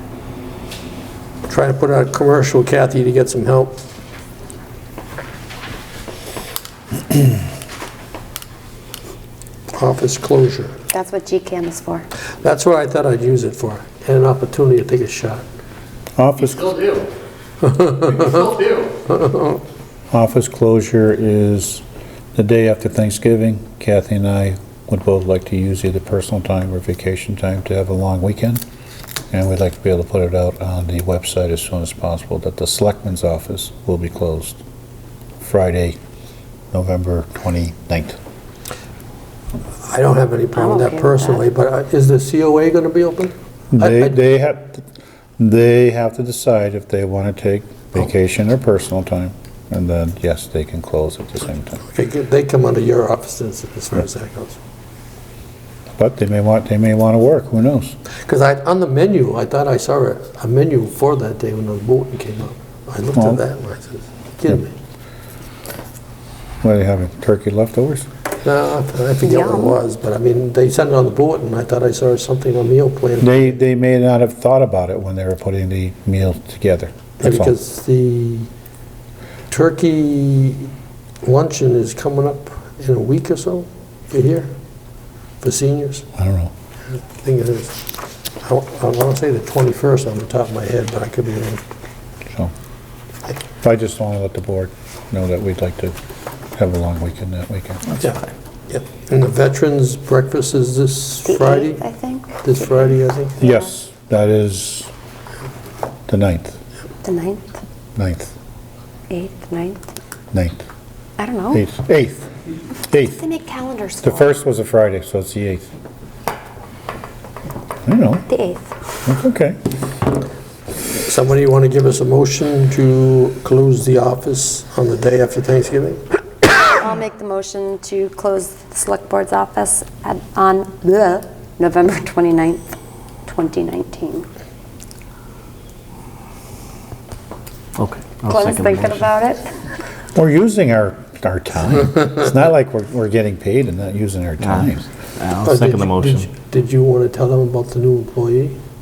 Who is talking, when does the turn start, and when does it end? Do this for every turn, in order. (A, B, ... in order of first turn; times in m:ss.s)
0:01.5-0:03.8 A
0:09.7-0:10.8 A
0:10.9-0:12.1 B
0:12.4-0:15.4 A
0:16.2-0:17.0 C
0:17.6-0:19.6 A
0:20.1-0:21.8 C
0:22.3-0:28.6 C
0:29.3-0:34.6 C
0:35.4-0:36.0 C
0:36.7-0:38.2 C
0:39.9-0:44.1 A
0:40.5-0:41.4 B
0:43.7-0:44.9 C
0:45.4-0:51.8 C
0:51.9-0:54.6 A
0:56.0-0:58.0 C
0:58.2-1:04.7 A
1:03.1-1:03.4 C
1:06.6-1:08.1 C
1:08.4-1:13.6 A
1:09.2-1:09.8 B
1:13.2-1:17.5 C
1:17.2-1:18.5 A
1:19.5-1:20.7 A
1:21.2-1:24.5 A
1:25.4-1:26.0 A
1:26.2-1:26.5 C
1:26.9-1:27.8 A
1:28.4-1:31.6 A
1:33.6-1:36.0 C
1:36.5-1:38.0 C
1:38.0-1:41.8 A
1:41.2-1:42.5 B
1:42.4-1:43.4 A
1:43.4-1:43.6 B
1:43.4-1:44.9 C
1:46.1-1:46.6 C
1:47.0-1:47.5 B
1:48.0-1:48.3 C
1:49.1-1:49.8 B
1:50.3-1:50.6 C
1:51.2-1:51.6 B
1:51.5-1:52.3 C
1:52.9-1:53.2 C
1:53.1-1:54.3 B
1:54.0-1:55.6 C
1:57.8-1:58.3 C
1:58.3-1:58.7 B
1:59.0-1:59.6 C
2:01.0-2:06.0 A
2:06.8-2:12.7 B
2:13.3-2:14.3 B
2:17.8-2:19.1 D
2:18.3-2:19.5 B
2:20.1-2:24.8 C
2:24.4-2:26.3 D
2:25.4-2:28.6 A